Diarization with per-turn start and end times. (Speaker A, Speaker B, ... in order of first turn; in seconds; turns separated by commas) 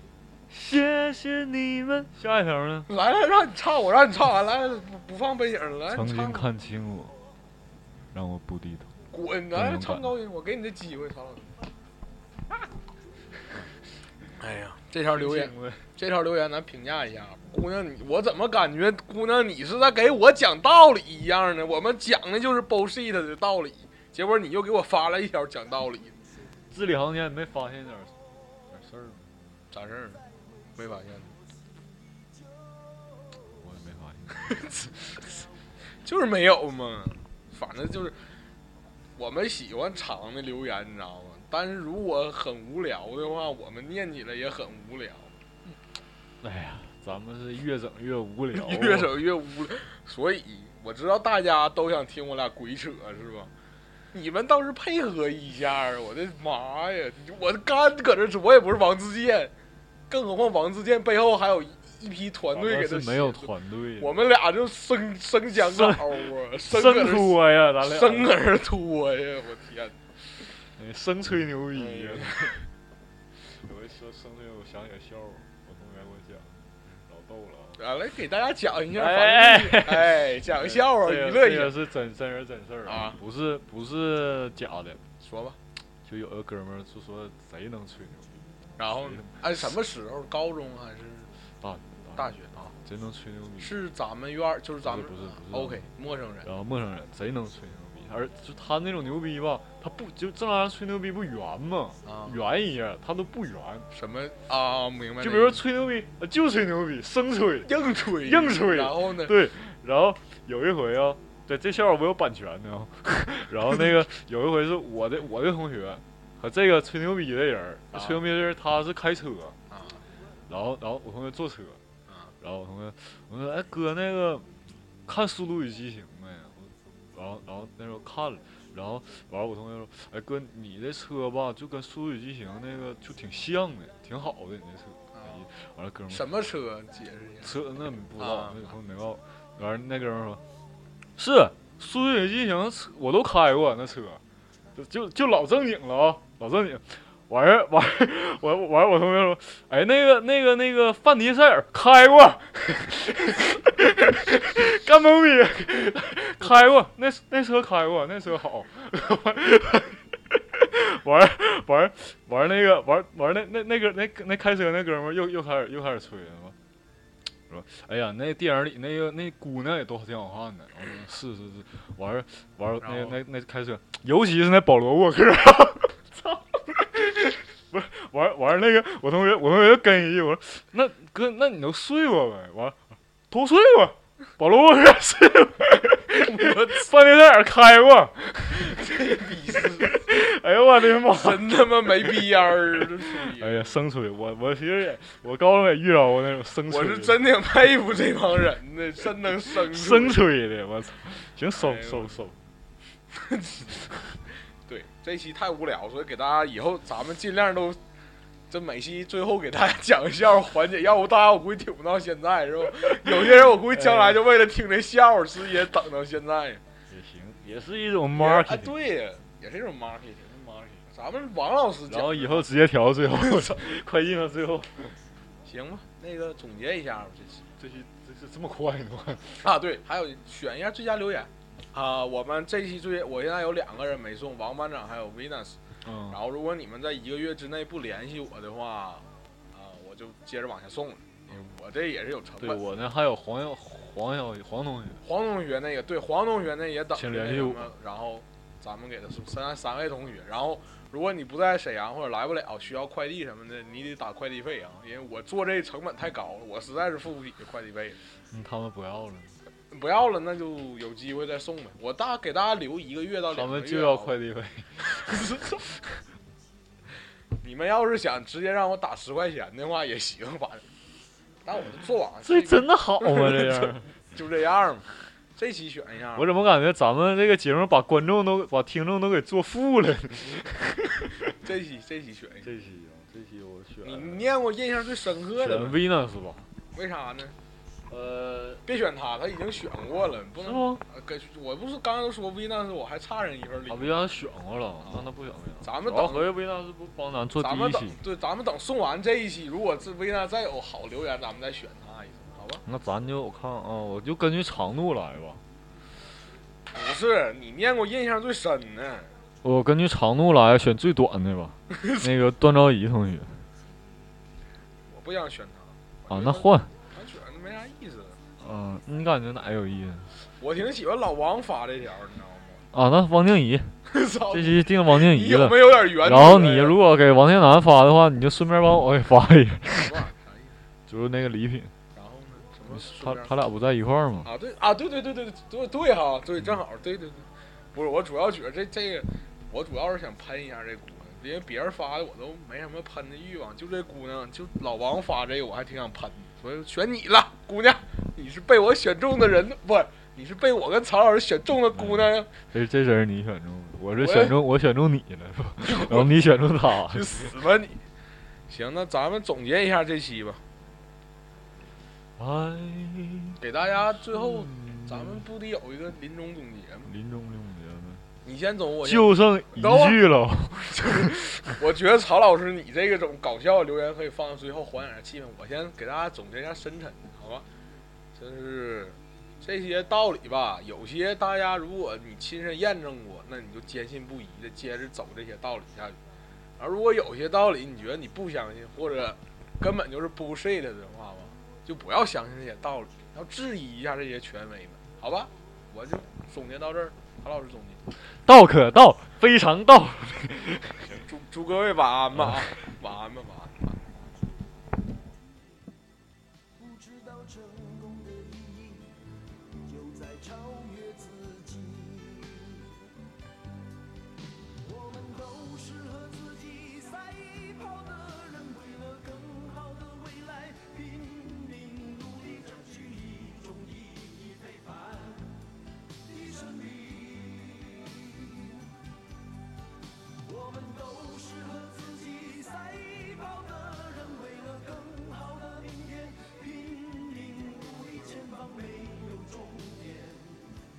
Speaker A: 0.5-2.9, Speaker B: 2.9-6.5, Speaker A: 5.9-7.1, Speaker A: 8.1-8.9, Speaker B: 9.1-11.7, Speaker A: 9.5-10.1, Speaker B: 14.4-26.2, Speaker A: 15.1-15.9, Speaker A: 26.7-28.1, Speaker A: 28.7-29.2, Speaker B: 29.7-30.2, Speaker B: 30.8-31.3, Speaker A: 33.6-34.4, Speaker B: 34.4-35.2, Speaker B: 36.0-38.2, Speaker B: 39.1-45.4, Speaker A: 46.4-49.1, Speaker B: 48.5-53.5, Speaker B: 54.1-59.5, Speaker B: 60.1-70.0, Speaker A: 62.5-64.2, Speaker A: 65.5-68.3, Speaker A: 70.8-72.6, Speaker B: 71.7-72.5, Speaker A: 73.5-77.8, Speaker B: 77.8-81.8, Speaker A: 78.9-85.0, Speaker B: 82.8-83.2, Speaker B: 85.2-85.6, Speaker A: 86.0-89.5, Speaker B: 88.8-91.3, Speaker A: 91.6-93.7, Speaker B: 92.1-92.7, Speaker B: 93.6-96.5, Speaker A: 94.8-95.8, Speaker A: 96.4-103.9, Speaker B: 102.0-102.4, Speaker B: 103.9-105.6, Speaker A: 105.2-119.5, Speaker B: 107.6-109.3, Speaker B: 117.9-118.2, Speaker B: 119.7-120.0, Speaker A: 120.5-121.8, Speaker A: 122.4-124.5, Speaker A: 125.0-136.4, Speaker B: 135.1-135.4, Speaker B: 136.1-137.6, Speaker A: 137.4-140.4, Speaker B: 138.2-138.7, Speaker A: 141.2-144.2, Speaker A: 144.7-166.6, Speaker A: 167.5-182.8, Speaker B: 172.8-173.2, Speaker A: 183.3-192.3, Speaker B: 186.1-186.9, Speaker B: 188.6-190.1, Speaker B: 191.1-193.7, Speaker A: 193.0-197.2, Speaker B: 196.7-200.2, Speaker A: 199.4-202.4, Speaker B: 201.5-202.2, Speaker B: 203.1-203.9, Speaker B: 204.7-207.8, Speaker B: 208.5-216.6, Speaker A: 213.2-214.2, Speaker A: 216.9-218.7, Speaker B: 218.2-222.6, Speaker A: 221.9-225.0, Speaker B: 223.1-223.6, Speaker B: 225.4-227.4, Speaker A: 227.6-229.5, Speaker B: 229.4-235.6, Speaker A: 235.8-236.2, Speaker B: 236.1-242.6, Speaker A: 242.4-245.0, Speaker B: 245.0-258.0, Speaker A: 246.9-247.7, Speaker A: 258.3-259.3, Speaker B: 259.7-264.1, Speaker A: 263.3-265.0, Speaker B: 264.8-265.6, Speaker B: 267.4-270.6, Speaker B: 271.4-276.3, Speaker A: 272.2-273.9, Speaker A: 276.1-280.9, Speaker B: 281.3-282.5, Speaker A: 282.4-284.2, Speaker B: 283.8-285.8, Speaker A: 285.4-286.5, Speaker B: 286.7-287.3, Speaker A: 287.9-288.6, Speaker B: 288.6-293.9, Speaker A: 290.4-290.8, Speaker A: 293.7-298.0, Speaker B: 294.8-295.1, Speaker B: 295.6-296.3, Speaker B: 297.4-302.6, Speaker A: 302.6-305.4, Speaker B: 306.7-309.1, Speaker A: 309.4-313.4, Speaker B: 314.9-318.2, Speaker A: 316.1-316.7, Speaker A: 318.4-320.1, Speaker B: 320.4-322.6, Speaker A: 322.7-323.8, Speaker B: 323.9-326.8, Speaker A: 324.3-330.0, Speaker B: 329.7-330.6, Speaker A: 330.9-331.7, Speaker B: 331.9-333.3, Speaker A: 332.7-334.3, Speaker B: 334.2-352.3, Speaker A: 351.7-357.2, Speaker B: 353.9-354.4, Speaker B: 355.6-356.2, Speaker B: 356.9-357.8, Speaker B: 358.5-360.4, Speaker A: 362.2-363.4, Speaker B: 363.4-366.9, Speaker A: 363.9-365.2, Speaker A: 366.9-368.0, Speaker B: 368.2-370.0, Speaker A: 368.8-371.3, Speaker B: 370.7-377.4, Speaker B: 378.1-386.0, Speaker B: 386.6-397.8, Speaker A: 398.1-400.9, Speaker B: 400.9-403.8, Speaker A: 402.2-402.4, Speaker C: 406.6-409.0, Speaker C: 409.6-412.7, Speaker C: 414.6-425.4, Speaker C: 426.0-428.7, Speaker C: 430.2-440.6